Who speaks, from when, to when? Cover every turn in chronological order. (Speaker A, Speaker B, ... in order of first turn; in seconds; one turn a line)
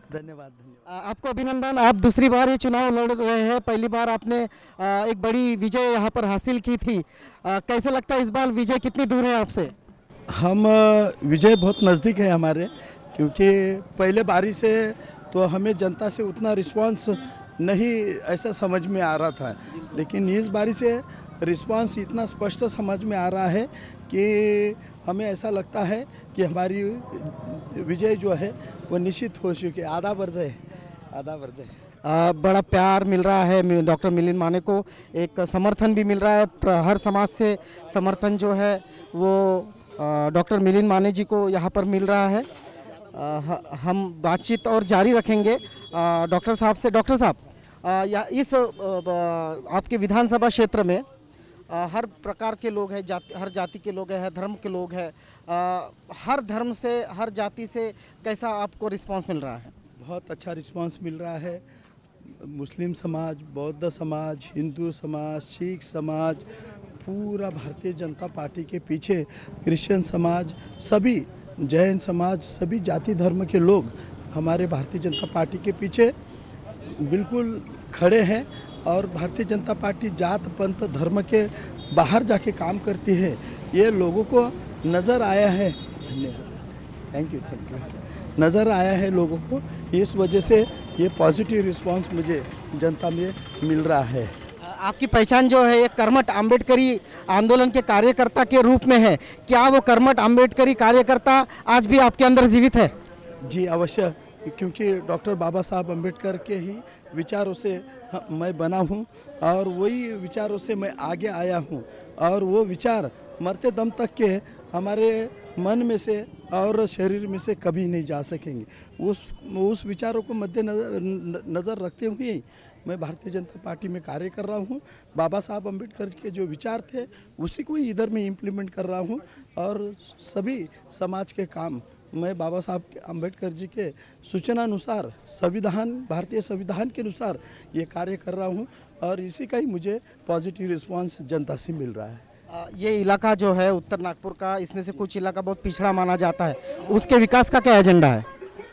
Speaker A: 0.1-0.9
Speaker B: 0.9-9.7
Speaker A: 10.3-31.8
Speaker B: 32.0-42.5
Speaker B: 43.1-51.0
Speaker B: 51.7-59.7
Speaker A: 60.0-61.6
Speaker A: 62.2-66.5
Speaker A: 67.0-76.1
Speaker A: 77.0-94.3
Speaker B: 94.6-102.9
Speaker A: 103.4-142.2
Speaker B: 142.5-148.3